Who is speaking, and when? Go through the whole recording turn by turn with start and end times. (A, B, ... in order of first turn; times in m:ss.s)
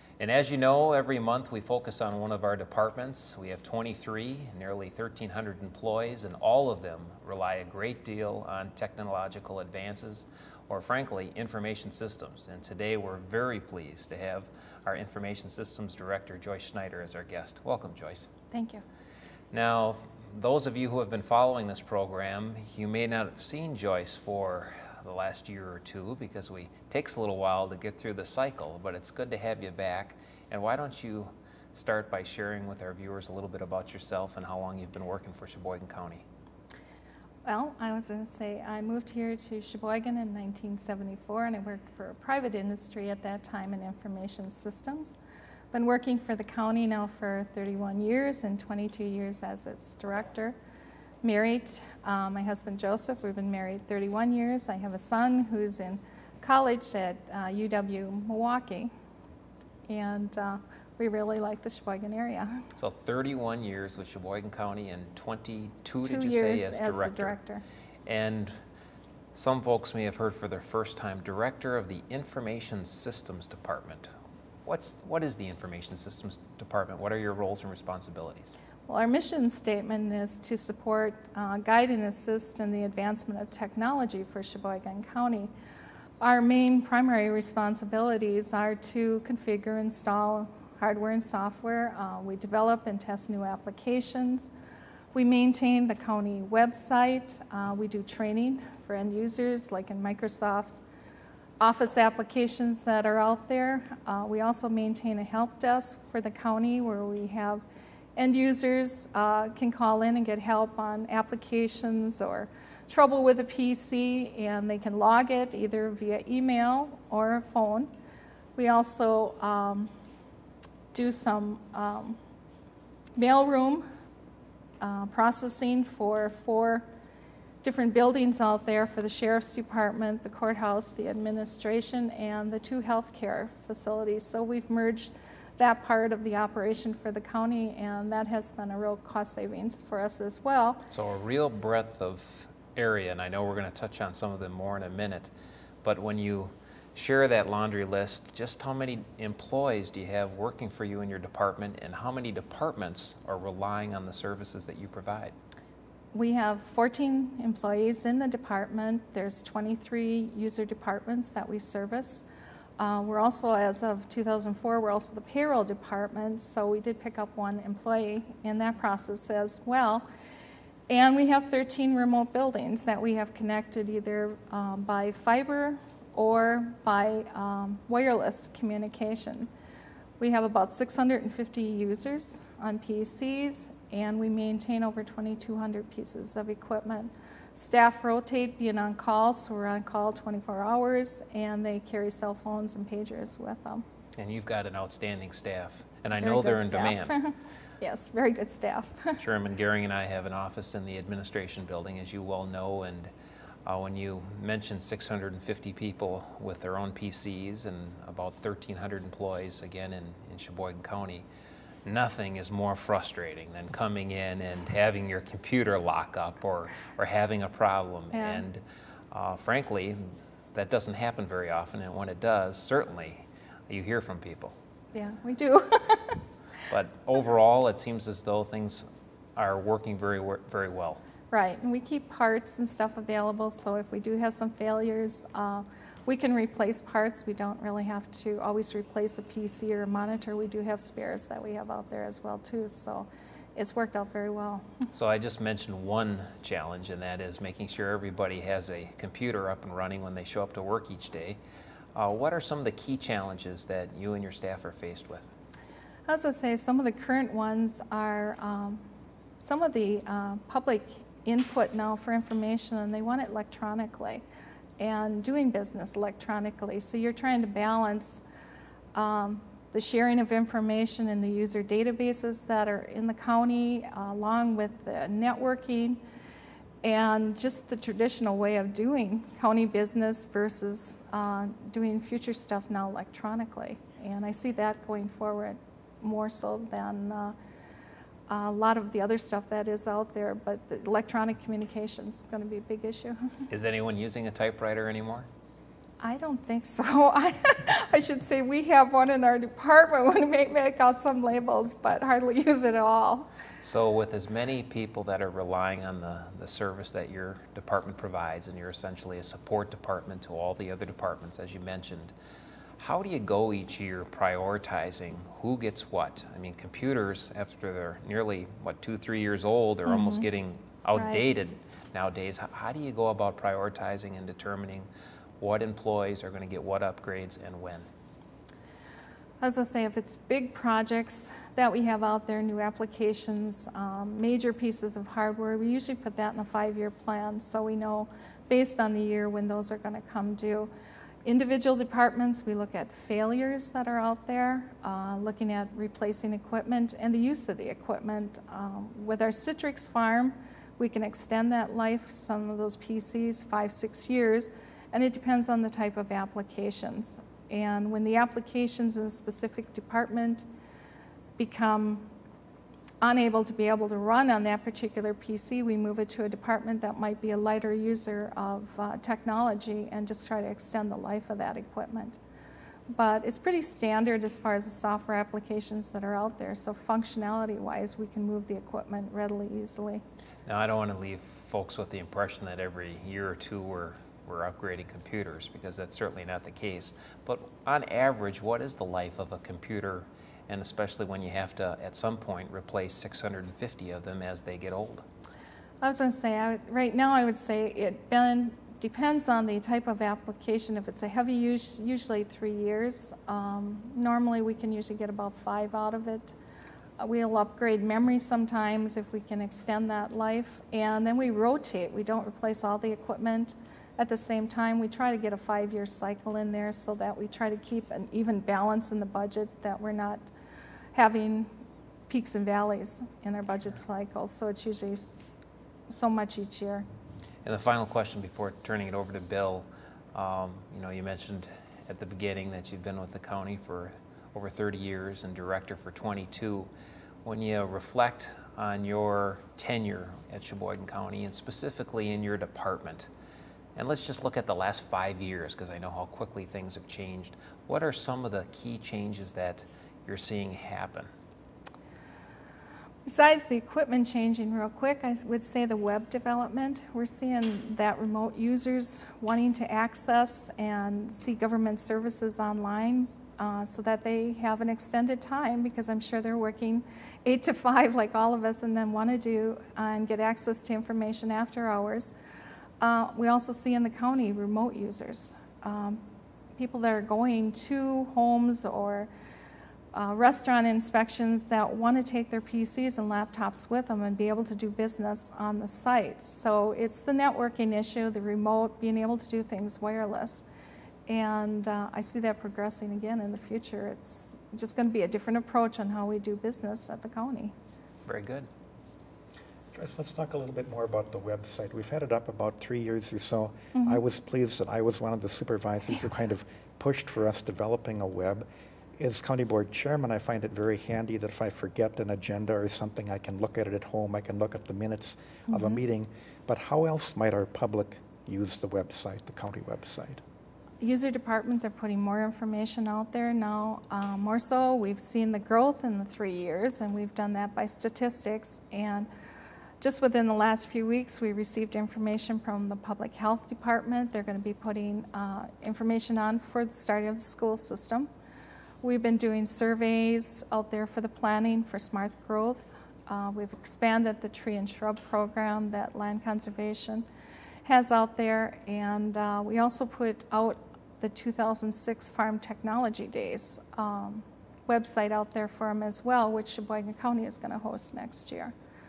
0:00.2-0:18.3 A
0:18.5-0:18.8 B
0:19.5-0:36.2 A
0:37.4-0:45.2 B
0:45.7-0:50.6 B
0:51.2-0:58.9 B
0:59.9-1:02.6 B
1:02.8-1:07.4 A
1:06.0-1:07.6 B
1:08.1-1:08.6 A
1:09.3-1:14.1 A
1:14.6-1:18.6 A
1:18.9-1:25.5 B
1:26.2-1:34.5 B
1:35.1-1:40.8 B
1:41.6-1:47.6 B
1:48.2-1:57.9 B
1:58.6-1:59.9 B
2:00.9-2:02.2 B
2:03.2-2:03.9 B
2:04.8-2:06.9 B
2:07.6-2:20.8 B
2:20.9-2:25.3 A
2:25.8-2:35.3 A
2:36.1-2:42.2 B
2:42.8-2:50.1 B
2:50.9-2:59.5 B
3:00.2-3:13.8 B
3:14.2-3:17.2 A
3:16.2-3:19.2 B
3:19.2-3:23.1 A
3:23.7-3:31.2 A
3:31.9-3:40.0 A
3:38.1-3:38.4 B
3:40.5-3:44.6 A
3:44.9-3:46.2 B
3:46.7-3:51.0 A
3:51.3-4:04.8 B
4:04.9-4:11.4 A
4:12.0-4:15.3 A
4:16.1-4:18.8 B
4:19.4-4:24.2 B
4:24.8-4:28.2 B
4:28.9-4:36.0 B
4:36.8-4:47.3 B
4:48.3-4:53.4 B
4:53.5-4:55.3 A
4:56.0-5:03.3 B
5:03.6-5:12.1 A
5:12.8-5:24.9 A
5:19.9-5:20.3 B
5:20.9-5:21.2 B
5:25.4-5:27.9 A
5:29.4-5:40.7 B
5:41.2-6:00.4 B
6:01.4-6:02.1 B
6:03.0-6:12.2 B
6:12.9-6:20.0 B
6:20.4-6:35.0 A
6:35.8-6:46.3 B
6:47.0-7:00.3 B
7:00.9-7:01.5 B
7:02.1-7:05.4 B
7:05.9-7:06.8 B
7:07.4-7:16.7 A
7:17.2-7:23.1 A
7:23.8-7:31.1 A
7:33.0-7:52.1 B
7:52.8-7:56.0 B
7:56.6-7:59.1 B
7:59.9-8:10.4 B
8:11.1-8:17.5 B
8:18.0-8:18.5 A
8:19.7-8:28.4 C
8:23.7-8:24.0 B
8:29.0-8:40.2 C
8:35.5-8:35.8 B
8:40.8-8:49.1 B
8:49.8-8:58.1 B
8:58.8-9:07.1 B
9:07.6-9:18.5 B